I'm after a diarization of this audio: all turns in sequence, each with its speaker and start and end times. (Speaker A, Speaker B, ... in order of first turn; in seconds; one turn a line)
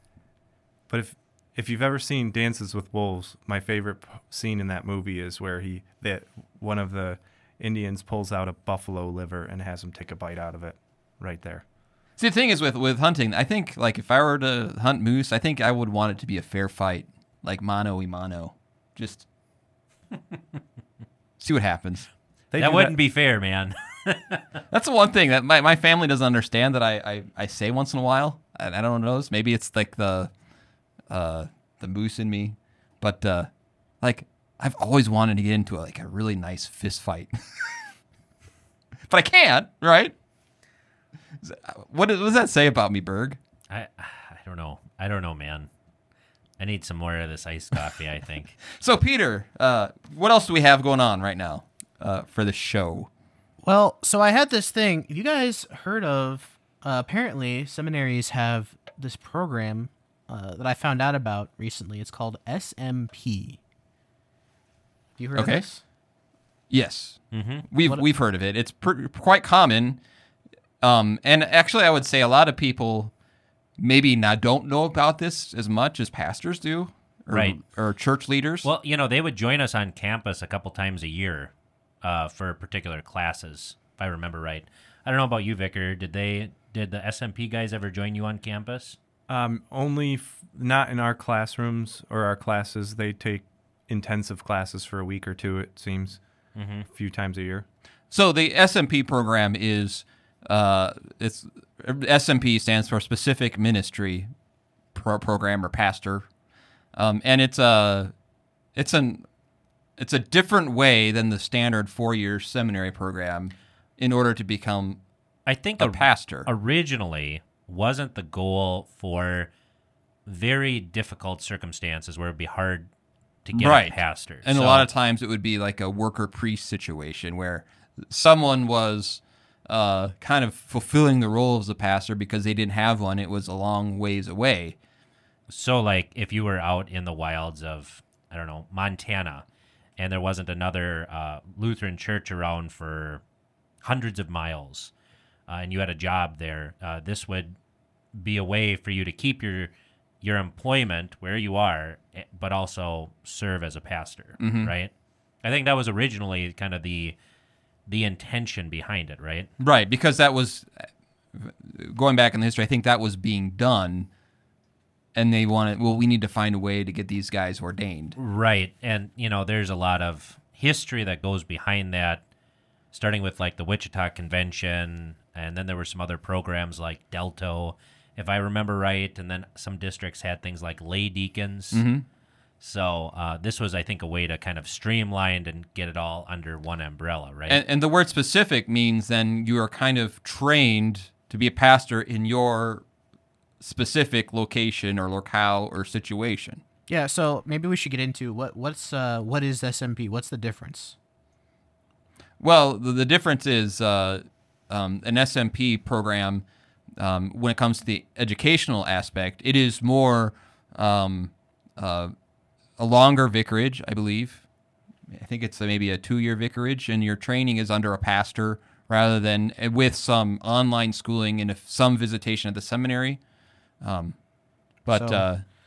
Speaker A: 0.9-11.6
Speaker B: 12.2-19.2
Speaker B: 21.4-22.1
Speaker A: 22.5-22.9
Speaker C: 22.6-24.4
Speaker B: 24.7-30.3
Speaker B: 31.1-33.5
Speaker B: 34.0-37.8
Speaker B: 39.1-40.1
Speaker B: 41.4-43.4
Speaker C: 43.7-45.7
Speaker C: 46.6-48.6
Speaker B: 48.7-53.1
Speaker D: 53.6-63.6
Speaker D: 65.2-65.8
Speaker B: 65.3-65.6
Speaker B: 66.7-70.0
Speaker C: 67.3-67.7
Speaker B: 70.8-73.1
Speaker B: 73.8-78.7
Speaker C: 77.3-77.6
Speaker C: 78.6-81.5
Speaker C: 82.0-89.0
Speaker A: 89.3-96.2
Speaker C: 96.5-96.9
Speaker A: 96.9-97.7
Speaker B: 98.1-104.3
Speaker B: 104.9-106.3
Speaker B: 106.9-108.1
Speaker B: 108.7-109.2
Speaker B: 110.0-115.0
Speaker C: 115.5-119.5
Speaker B: 115.8-116.5
Speaker C: 120.2-122.9
Speaker C: 123.5-124.9
Speaker B: 123.5-134.8
Speaker C: 135.5-139.4
Speaker C: 140.0-143.2
Speaker C: 143.8-144.9
Speaker C: 145.5-147.6
Speaker C: 148.1-149.7
Speaker C: 150.2-154.9
Speaker B: 154.4-154.7
Speaker C: 155.4-157.2
Speaker C: 157.9-159.5
Speaker B: 159.6-164.1
Speaker B: 165.1-168.2
Speaker C: 168.2-172.2
Speaker C: 172.9-181.8
Speaker B: 181.7-182.0
Speaker C: 182.6-187.6
Speaker B: 187.5-192.8
Speaker B: 193.6-196.6
Speaker D: 196.9-200.9
Speaker B: 202.4-206.4
Speaker B: 207.0-212.1
Speaker B: 212.8-214.4
Speaker B: 215.1-223.2
Speaker B: 223.8-224.2
Speaker B: 224.8-225.4
Speaker D: 224.9-225.3